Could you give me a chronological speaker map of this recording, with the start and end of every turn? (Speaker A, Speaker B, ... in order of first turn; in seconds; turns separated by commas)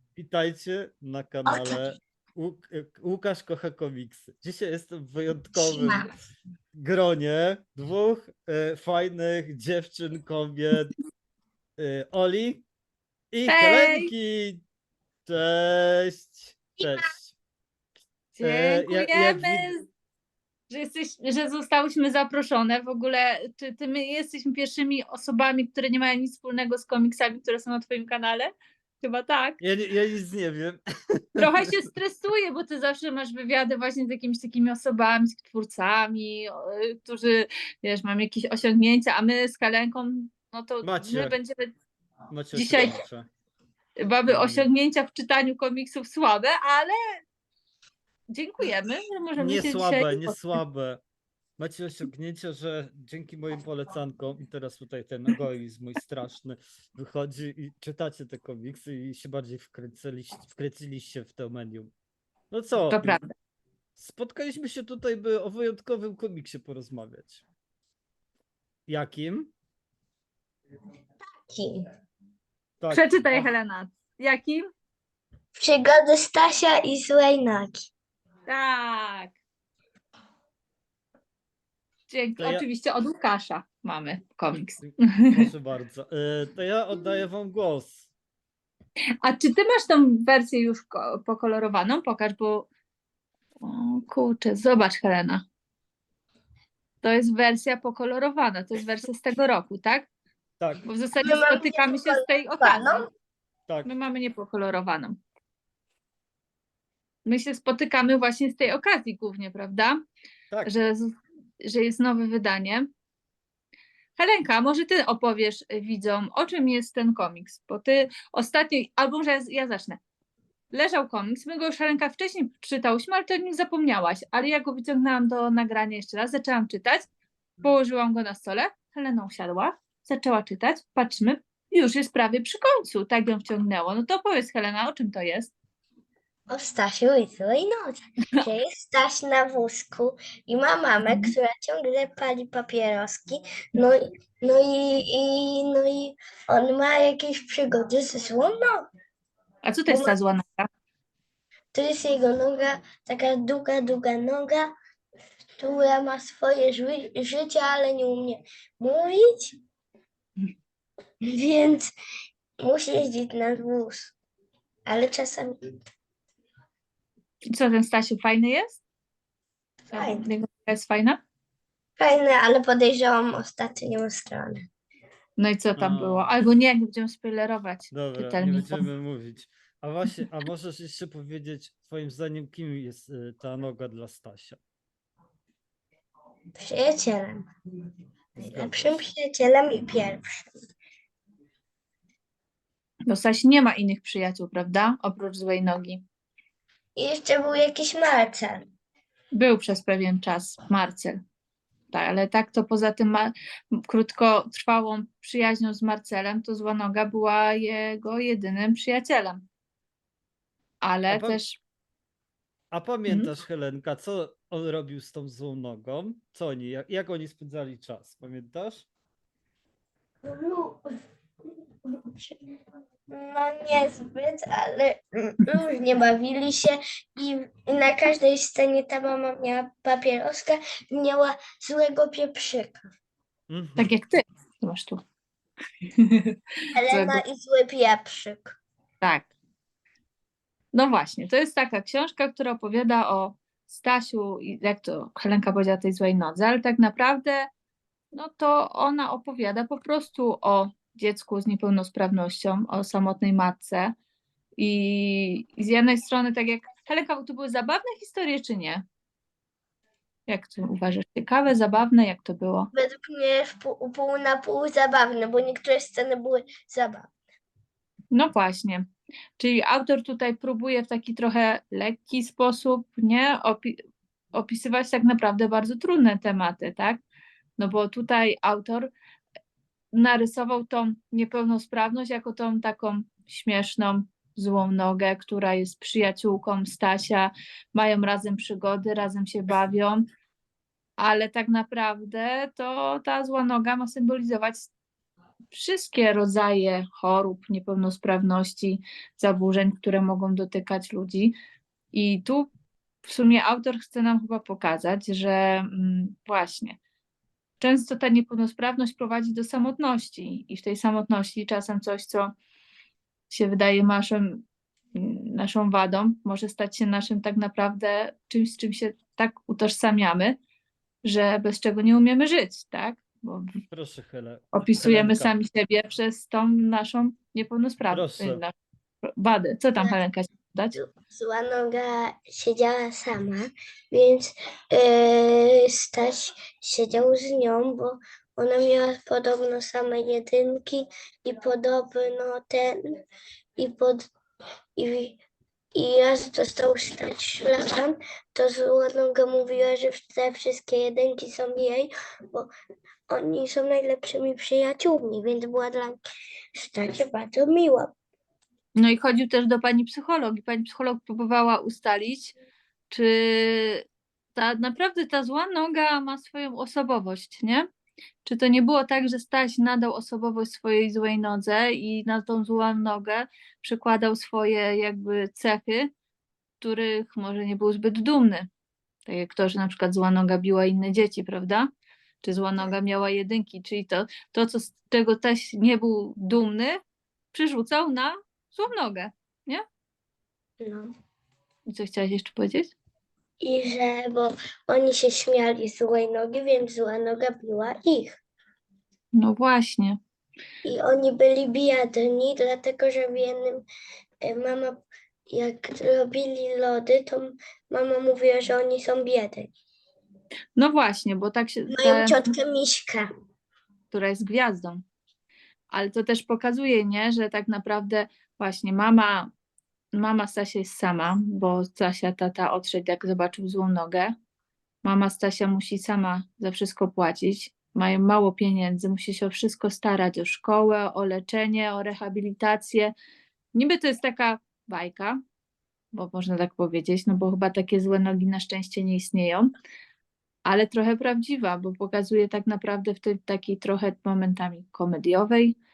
Speaker A: 0.1-6.0, Speaker B: 1.5-1.8, Speaker B: 5.5-6.1, Speaker A: 6.7-10.9, Speaker A: 11.8-12.6, Speaker A: 13.3-14.6, Speaker C: 13.5-14.1, Speaker A: 15.3-17.4, Speaker C: 18.4-19.8, Speaker A: 18.4-19.7, Speaker C: 20.7-28.5, Speaker C: 29.0-29.6, Speaker A: 29.6-30.8, Speaker A: 31.4-31.8, Speaker C: 31.4-41.7, Speaker A: 40.8-41.4, Speaker A: 42.3-43.3, Speaker C: 42.5-43.0, Speaker C: 44.0-47.0, Speaker A: 44.3-44.7, Speaker C: 48.3-50.5, Speaker A: 49.4-51.0, Speaker A: 51.6-61.9, Speaker A: 62.5-63.2, Speaker C: 62.9-63.3, Speaker A: 64.0-67.4, Speaker A: 68.9-69.5, Speaker B: 71.4-71.8, Speaker A: 72.8-73.5, Speaker C: 72.9-74.7, Speaker B: 75.5-77.9, Speaker C: 78.5-79.3, Speaker C: 82.1-85.5, Speaker A: 82.4-82.7, Speaker A: 84.8-88.1, Speaker C: 89.2-92.7, Speaker C: 93.6-95.4, Speaker C: 97.0-100.1, Speaker C: 100.9-103.0, Speaker B: 101.2-103.1, Speaker C: 103.8-105.2, Speaker C: 107.3-110.0, Speaker C: 110.7-112.9, Speaker C: 114.2-120.0, Speaker C: 120.7-127.0, Speaker C: 127.6-135.5, Speaker B: 136.5-148.8, Speaker C: 141.1-141.3, Speaker C: 149.6-150.7, Speaker B: 149.9-150.2, Speaker B: 151.7-154.7, Speaker B: 155.6-159.6, Speaker B: 161.2-161.9, Speaker B: 162.6-164.1, Speaker B: 164.9-165.6, Speaker C: 167.5-168.8, Speaker C: 169.9-171.2, Speaker B: 169.9-170.2, Speaker B: 172.0-174.6, Speaker C: 175.4-178.8, Speaker A: 175.8-176.3, Speaker A: 177.9-184.6, Speaker B: 186.6-187.5, Speaker A: 188.3-189.0, Speaker B: 188.4-190.5, Speaker C: 193.1-196.0, Speaker B: 197.0-198.7, Speaker C: 199.3-201.2, Speaker C: 201.9-203.3, Speaker C: 203.9-209.4, Speaker C: 210.8-211.6, Speaker A: 211.1-211.4, Speaker A: 212.7-218.9, Speaker B: 220.2-220.9, Speaker B: 222.1-222.4, Speaker B: 223.1-232.8, Speaker A: 233.5-233.9, Speaker C: 233.8-235.0, Speaker C: 236.0-236.4, Speaker B: 236.7-238.6, Speaker C: 236.9-237.2, Speaker C: 239.0-239.3, Speaker C: 240.7-247.5, Speaker C: 248.1-253.9, Speaker C: 254.6-258.8, Speaker C: 260.3-262.7, Speaker B: 262.7-267.1, Speaker C: 268.1-268.9, Speaker C: 269.4-273.8, Speaker C: 274.3-277.0, Speaker C: 277.6-278.9, Speaker C: 279.9-290.0, Speaker C: 291.0-294.7, Speaker C: 295.5-301.4, Speaker C: 301.9-302.5, Speaker C: 303.1-306.8, Speaker C: 307.6-312.3, Speaker C: 313.3-314.4, Speaker C: 314.9-320.4, Speaker C: 321.0-323.5, Speaker A: 323.7-325.3, Speaker C: 324.5-328.5, Speaker A: 327.9-328.4, Speaker C: 329.1-330.8, Speaker B: 330.8-343.0, Speaker B: 343.6-344.1, Speaker B: 344.8-345.2, Speaker B: 345.8-352.5, Speaker B: 353.1-356.0, Speaker B: 356.6-357.9, Speaker C: 358.8-362.4, Speaker C: 362.9-363.8, Speaker C: 364.4-367.7, Speaker C: 368.2-375.9, Speaker C: 376.6-378.5, Speaker C: 379.1-381.7, Speaker C: 382.2-386.8, Speaker C: 387.3-389.6, Speaker B: 390.6-390.9, Speaker C: 391.7-392.7, Speaker B: 393.4-398.2, Speaker C: 399.1-400.0, Speaker B: 400.6-403.6, Speaker B: 404.2-409.5, Speaker C: 410.6-412.2, Speaker B: 411.7-413.1, Speaker C: 413.9-414.8, Speaker C: 415.7-419.3, Speaker C: 420.0-424.1, Speaker C: 424.8-432.9, Speaker C: 433.5-435.2, Speaker C: 435.9-439.5, Speaker C: 440.5-445.6